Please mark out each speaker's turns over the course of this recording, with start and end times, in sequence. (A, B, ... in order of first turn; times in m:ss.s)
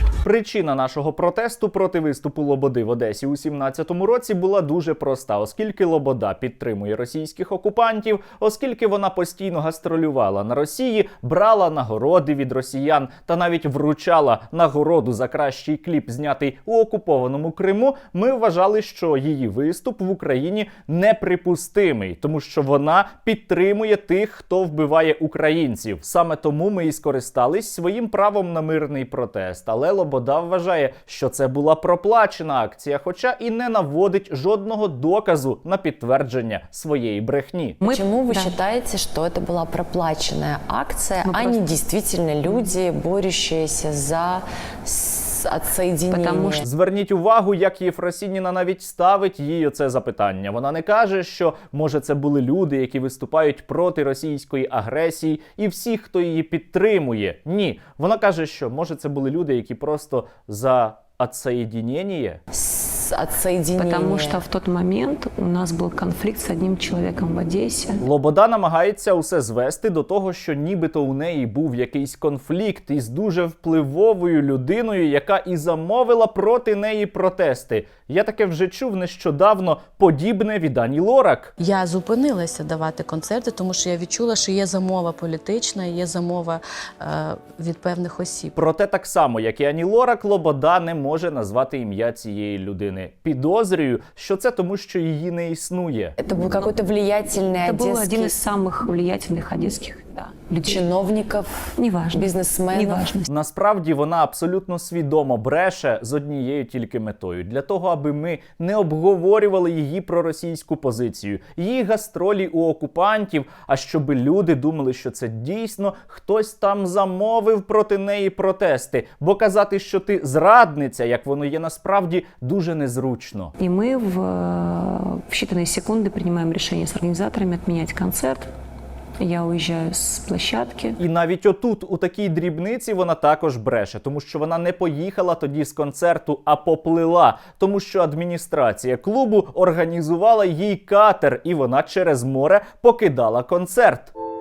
0:00.2-0:37.8 A
0:37.8-0:38.6 B
0:37.8-0:46.7 C
0:41.2-0:41.7 B
0:46.1-0:46.6 B
0:46.6-1:02.4 A
1:02.5-1:04.4 C
1:03.8-1:08.0 B
1:08.0-1:21.5 A
1:21.6-1:28.5 D
1:28.6-1:36.1 A
1:36.2-1:38.4 C
1:37.6-1:40.9 B
1:40.6-1:43.1 C
1:41.8-1:43.3 B
1:43.3-2:03.5 A
2:03.6-2:08.5 B
2:09.2-2:11.0 B
2:11.0-2:24.1 A